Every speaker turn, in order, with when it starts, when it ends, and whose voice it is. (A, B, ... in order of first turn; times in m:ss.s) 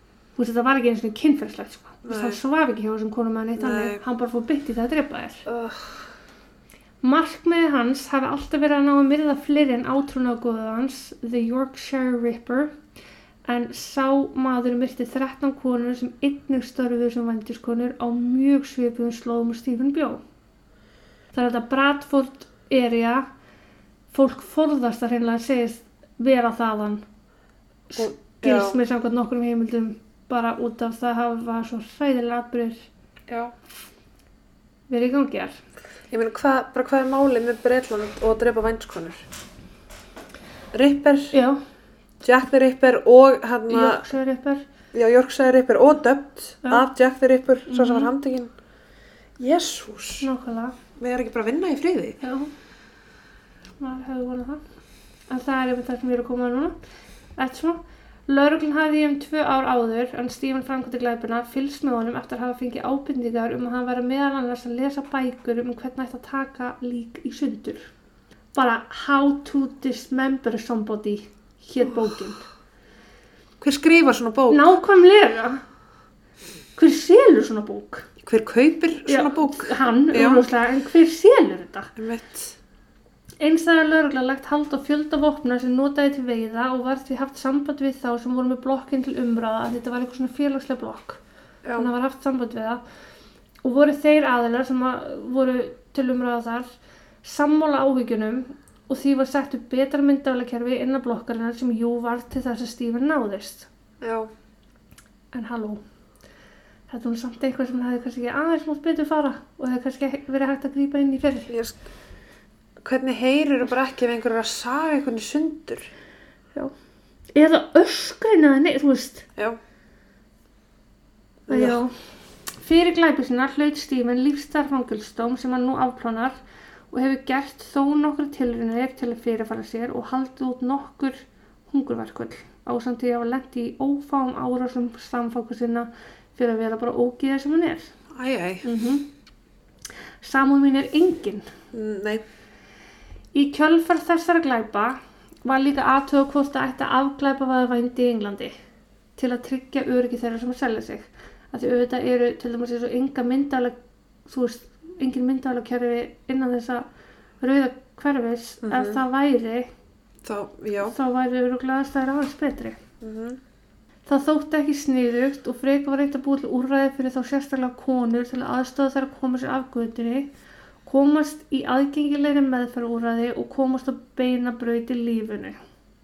0:00.4-0:05.4 A
0:02.0-0:02.4 B
0:03.6-0:04.0 B
0:05.4-0:06.1 B
0:07.0-0:12.7 A
0:13.4-0:20.2 A
0:21.3-0:23.2 A
0:24.1-0:27.0 A
0:27.9-0:32.8 A
0:28.0-0:28.8 B
0:33.3-0:33.5 B
0:34.9-0:35.6 A
0:36.1-0:39.2 B
0:40.7-0:41.4 B
0:41.3-0:41.6 A
0:42.2-0:44.0 B
0:43.7-0:44.6 A
0:44.9-0:48.5 B
0:47.7-0:48.1 A
0:49.4-0:50.3 B
0:50.2-0:50.8 A
0:51.0-0:52.2 B
0:52.2-0:52.5 A
0:53.8-0:54.6 A
0:55.3-0:56.8 A
0:57.4-1:07.9 A
1:08.5-1:12.4 A
1:13.6-1:14.6 B
1:14.5-1:15.6 A
1:16.8-1:18.1 A
1:18.2-1:20.4 B
1:19.1-1:21.9 A
1:22.0-1:22.6 B
1:23.4-1:31.2 A
1:31.6-1:31.9 B
1:31.7-1:32.8 A
1:33.6-1:36.7 A
1:37.2-1:43.7 A
1:44.0-1:44.3 B
1:45.3-1:45.8 A
1:46.9-1:51.5 A
1:51.5-1:51.8 B
1:52.8-1:55.9 B
1:57.3-1:59.3 A
2:01.5-2:01.8 B
2:01.5-2:06.4 A
2:06.9-2:17.9 A
2:18.1-2:18.6 B
2:18.6-2:19.1 A
2:20.2-2:21.5 A
2:21.7-2:22.2 B
2:23.3-2:28.5 A
2:29.2-2:33.7 A
2:34.2-2:36.8 A
2:37.4-2:39.7 A
2:38.6-2:39.0 B
2:40.2-2:40.9 B
2:40.8-2:42.8 A
2:43.0-2:43.4 B
2:44.1-2:50.3 A
2:50.8-2:55.6 A